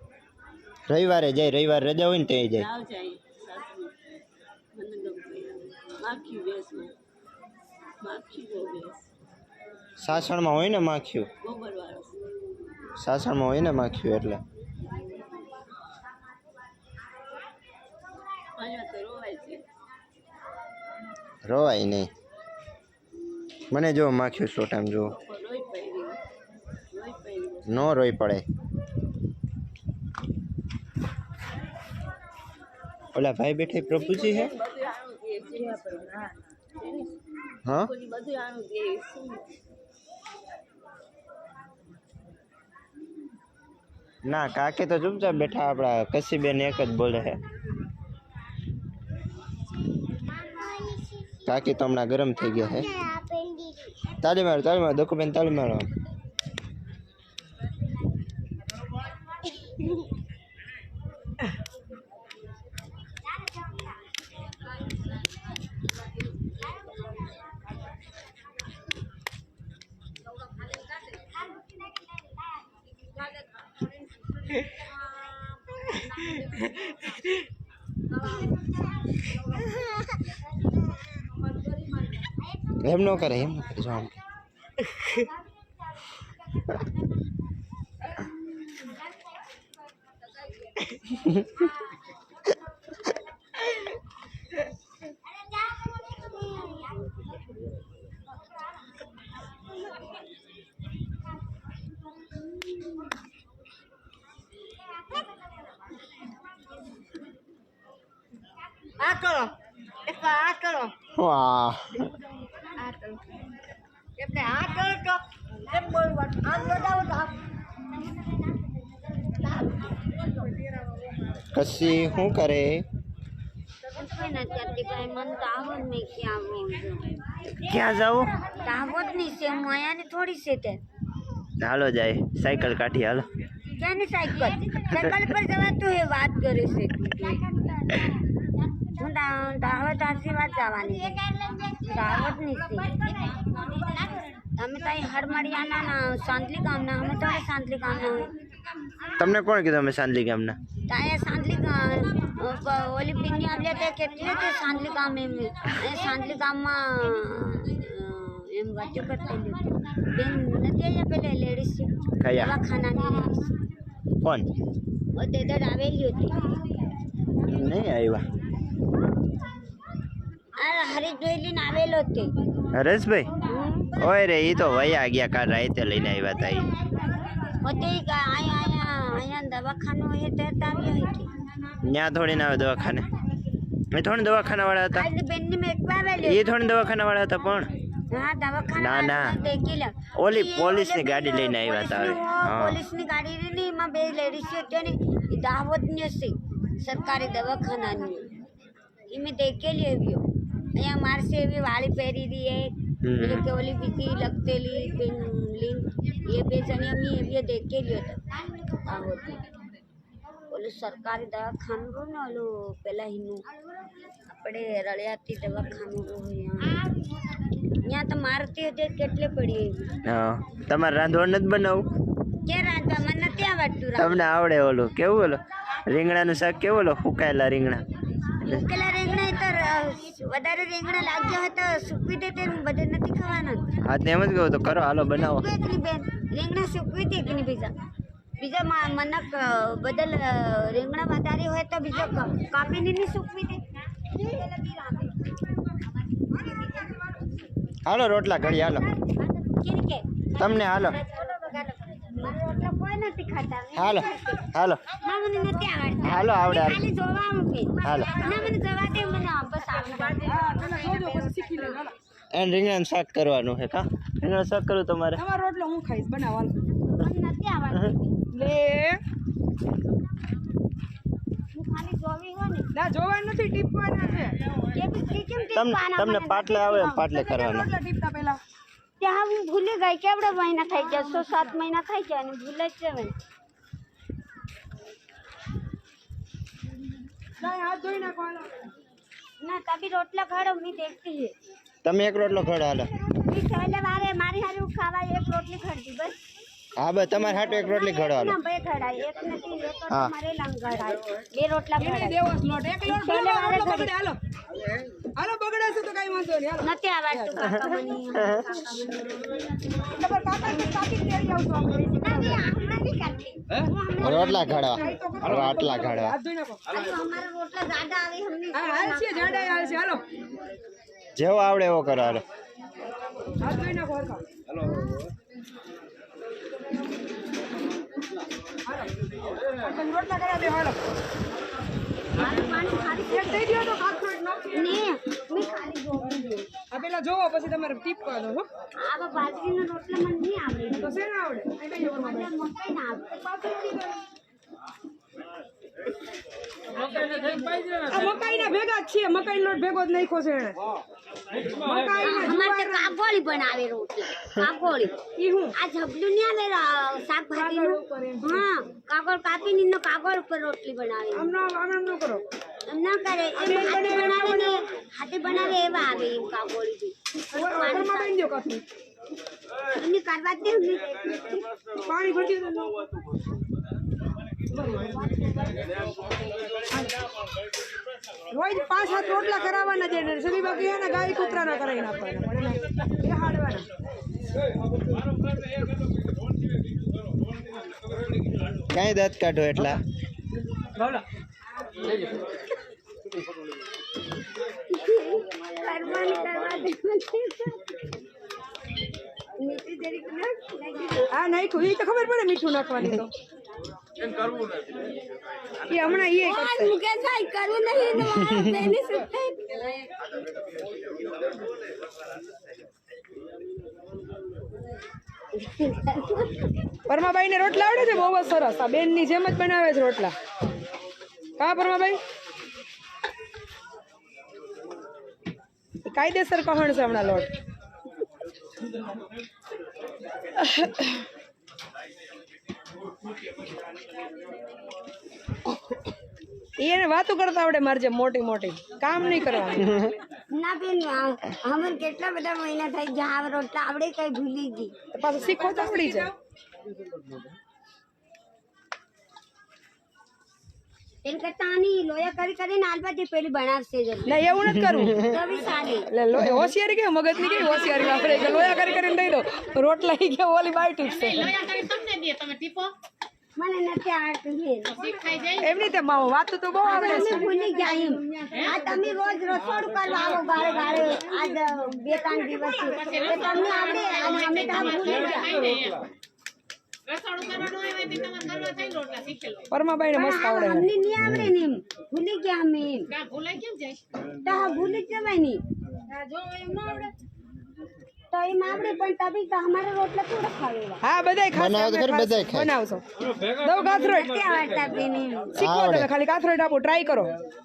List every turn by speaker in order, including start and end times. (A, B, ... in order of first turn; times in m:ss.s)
0:00.9-0:02.6 A
0:02.6-0:03.9 B
0:04.7-0:06.9 B
0:08.0-0:09.0 B
0:10.0-0:11.3 A
0:11.4-0:12.2 B
0:13.0-0:14.4 A
0:18.5-0:19.6 B
0:21.4-0:22.1 A
0:23.7-0:25.1 A
0:25.1-0:26.2 B
0:26.9-0:27.9 B
0:27.6-0:28.4 A
0:33.1-0:34.5 A
0:33.9-0:37.1 B
0:37.8-0:39.4 B
0:44.2-0:47.4 A
0:50.5-0:51.4 C
0:51.4-0:52.9 A
0:52.8-0:54.0 C
0:54.2-0:55.9 A
1:22.8-1:24.1 A
1:36.1-1:36.9 C
1:49.0-1:49.5 C
1:50.1-1:50.9 C
1:51.1-1:51.9 A
1:54.2-1:57.3 C
2:01.5-2:02.8 A
2:03.9-2:07.2 C
2:07.6-2:08.4 A
2:08.6-2:10.8 C
2:11.6-2:13.3 A
2:13.8-2:17.9 C
2:14.3-2:15.2 A
2:19.0-2:28.3 C
2:29.2-2:30.6 A
2:30.9-2:43.5 C
2:42.2-2:42.6 A
2:44.2-2:44.5 A
2:45.1-2:46.8 C
2:47.5-2:48.2 A
2:50.6-2:52.3 C
2:52.7-2:53.3 A
2:53.4-2:53.9 C
2:54.0-2:56.7 A
2:57.6-3:01.3 C
3:01.8-3:03.1 A
3:03.9-3:05.1 A
3:04.9-3:06.4 C
3:06.2-3:07.7 A
3:08.1-3:18.3 C
3:08.8-3:09.3 A
3:10.1-3:12.8 A
3:19.1-3:29.4 C
3:23.0-3:23.4 A
3:30.5-3:33.4 C
3:34.3-3:36.8 C
3:37.8-3:40.0 C
3:40.0-3:41.8 A
3:42.4-3:44.3 C
3:44.0-3:47.8 A
3:48.4-3:53.6 C
3:53.8-3:55.5 A
3:55.2-3:57.7 C
3:58.4-4:05.2 C
4:06.3-4:06.9 C
4:07.8-4:08.9 A
4:09.4-4:14.4 C
4:10.4-4:11.0 A
4:13.8-4:14.8 A
4:15.0-4:20.8 C
4:16.0-4:16.8 A
4:17.8-4:18.1 A
4:20.2-4:21.9 D
4:22.3-4:25.2 A
4:25.2-4:26.5 D
4:26.9-4:28.0 C
4:28.3-4:29.0 D
4:31.5-4:32.7 C
4:32.7-4:34.4 D
4:34.7-4:37.0 C
4:35.5-4:37.7 A
4:37.1-4:38.4 D
4:39.0-4:43.1 C
4:47.4-4:48.7 D
4:49.4-4:51.3 C
4:51.8-4:52.9 A
4:53.2-4:56.2 C
4:56.8-4:58.4 A
4:57.1-5:02.2 C
5:01.8-5:04.2 D
5:02.8-5:03.9 C
5:05.2-5:07.3 D
5:06.6-5:09.4 C
5:10.0-5:12.4 D
5:12.0-5:14.9 C
5:14.0-5:16.2 A
5:14.8-5:16.6 D
5:16.7-5:19.5 C
5:18.5-5:20.0 D
5:21.2-5:22.2 A
5:23.4-5:24.2 D
5:28.6-5:28.9 D
5:29.5-5:31.0 D
5:32.1-5:33.5 C
5:33.1-5:34.8 D
5:34.5-5:36.5 C
5:36.7-5:38.4 D
5:38.8-5:40.9 C
5:40.8-5:42.3 D
5:41.8-5:43.7 C
5:43.7-5:44.0 D
5:46.8-5:50.6 D
5:51.4-5:52.9 D
5:52.0-5:55.0 C
5:55.2-5:55.5 D
5:55.5-6:01.3 C
5:57.3-5:58.4 D
6:01.1-6:02.2 D
6:02.7-6:08.4 C
6:03.4-6:04.6 D
6:07.3-6:08.6 D
6:09.7-6:11.4 C
6:11.8-6:13.2 D
6:14.5-6:15.0 D
6:16.7-6:16.9 D
6:18.3-6:23.7 D
6:28.7-6:29.8 A
6:34.7-6:37.6 C
6:39.4-6:41.1 C
6:41.1-6:43.1 D
6:45.7-6:46.7 D
6:46.1-6:49.9 C
6:55.3-6:56.3 C
6:56.9-7:00.1 D
7:01.4-7:02.0 D
7:05.8-7:07.3 D
7:10.4-7:11.0 D
7:16.6-7:19.7 D
7:19.6-7:19.9 A
7:20.3-7:24.7 C
7:24.9-7:26.1 D
7:31.0-7:34.2 C
7:34.0-7:35.0 D
7:34.9-7:35.9 C
7:35.9-7:41.9 D
7:43.4-7:45.3 C
7:45.4-7:47.3 D
7:46.6-7:55.6 C
7:59.5-8:00.7 D
7:59.9-8:02.9 C
8:01.0-8:01.3 A
8:04.2-8:05.4 C
8:06.0-8:06.9 C
8:08.1-8:10.8 C
8:10.8-8:14.1 D
8:11.3-8:12.5 A
8:13.6-8:15.3 C
8:15.3-8:17.1 D
8:15.4-8:15.9 A